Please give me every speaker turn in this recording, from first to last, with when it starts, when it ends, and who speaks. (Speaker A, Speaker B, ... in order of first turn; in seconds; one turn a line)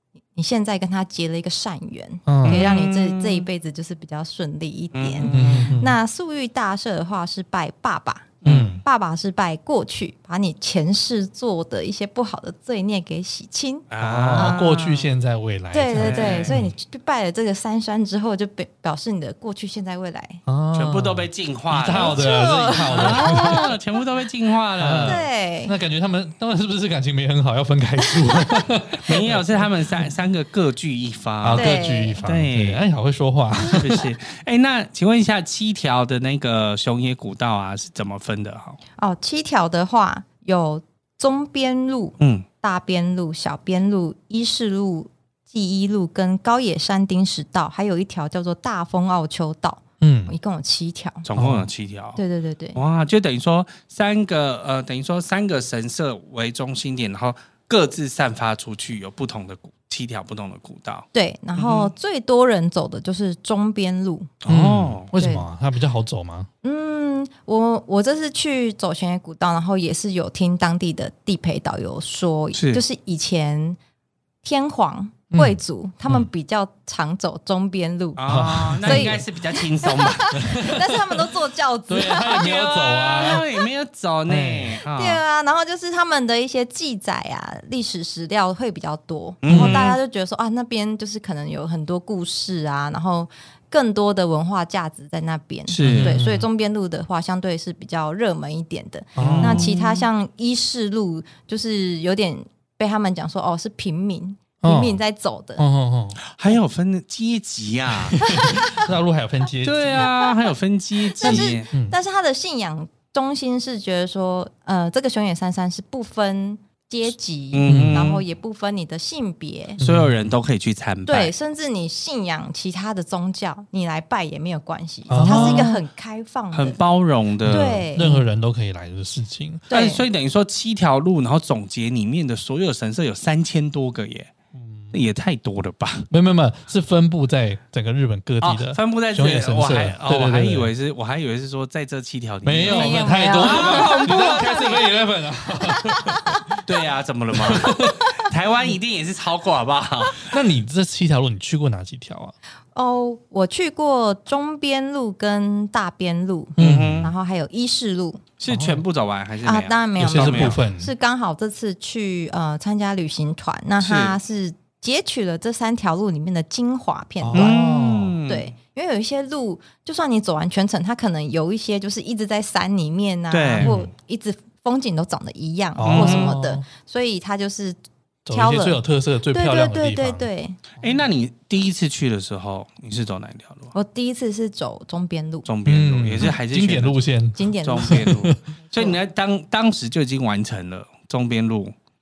Speaker A: 0.3-14.7
Speaker B: 2.3-2.6
Speaker C: 2.4-3.5
Speaker C: 4.9-5.7
Speaker B: 5.3-6.0
Speaker C: 8.4-8.7
Speaker B: 8.4-8.8
Speaker C: 13.9-15.1
Speaker B: 14.0-16.7
Speaker A: 15.7-20.4
Speaker C: 15.9-16.6
Speaker B: 20.4-23.7
Speaker C: 20.7-22.2
Speaker A: 21.9-23.8
Speaker C: 22.9-25.2
Speaker B: 24.8-29.7
Speaker A: 25.0-25.7
Speaker C: 29.0-32.8
Speaker B: 31.4-34.0
Speaker A: 31.5-32.2
Speaker C: 33.6-38.8
Speaker A: 39.0-51.2
Speaker C: 42.2-42.5
Speaker B: 50.0-50.3
Speaker C: 51.2-52.2
Speaker B: 51.4-51.7
Speaker A: 52.1-52.8
Speaker C: 52.7-61.9
Speaker A: 61.1-64.3
Speaker C: 64.4-65.1
Speaker B: 64.5-66.5
Speaker A: 65.2-65.4
Speaker A: 66.6-73.8
Speaker C: 72.5-72.8
Speaker A: 74.4-83.6
Speaker B: 75.3-76.3
Speaker C: 78.2-80.4
Speaker B: 78.2-79.2
Speaker B: 80.3-81.3
Speaker B: 81.9-83.4
Speaker C: 83.1-85.2
Speaker B: 84.3-84.8
Speaker A: 84.9-105.6
Speaker C: 89.4-90.0
Speaker B: 89.5-89.9
Speaker C: 95.7-96.2
Speaker B: 95.8-96.5
Speaker B: 99.2-99.7
Speaker C: 99.2-100.0
Speaker B: 104.6-105.0
Speaker B: 105.6-106.2
Speaker C: 106.3-108.2
Speaker B: 108.1-110.1
Speaker A: 108.2-108.8
Speaker C: 109.6-111.7
Speaker A: 111.2-119.8
Speaker B: 111.2-112.0
Speaker C: 117.5-118.2
Speaker B: 117.7-118.1
Speaker B: 119.8-120.3
Speaker C: 119.8-121.3
Speaker A: 121.0-126.8
Speaker B: 125.1-125.8
Speaker C: 125.1-125.7
Speaker C: 126.5-128.2
Speaker B: 127.4-129.7
Speaker A: 127.5-128.2
Speaker A: 129.7-130.0
Speaker C: 129.7-134.3
Speaker B: 134.5-134.9
Speaker C: 134.9-136.1
Speaker B: 136.1-140.7
Speaker C: 138.4-144.9
Speaker B: 142.4-146.6
Speaker A: 142.7-144.0
Speaker A: 145.8-146.4
Speaker C: 146.6-150.3
Speaker B: 147.3-148.1
Speaker B: 150.3-152.3
Speaker A: 152.7-158.2
Speaker C: 156.6-157.1
Speaker B: 156.6-157.1
Speaker C: 158.4-160.6
Speaker B: 158.5-158.8
Speaker A: 159.4-167.6
Speaker B: 160.0-160.9
Speaker C: 163.8-164.2
Speaker B: 167.2-168.2
Speaker C: 167.3-168.5
Speaker A: 168.3-177.8
Speaker C: 173.3-173.7
Speaker B: 173.6-173.9
Speaker B: 175.8-176.6
Speaker C: 175.8-176.3
Speaker B: 178.2-180.3
Speaker A: 178.3-180.6
Speaker C: 180.8-183.7
Speaker A: 183.7-185.5
Speaker C: 185.4-187.0
Speaker B: 185.7-188.4
Speaker A: 187.3-188.1
Speaker C: 187.6-191.7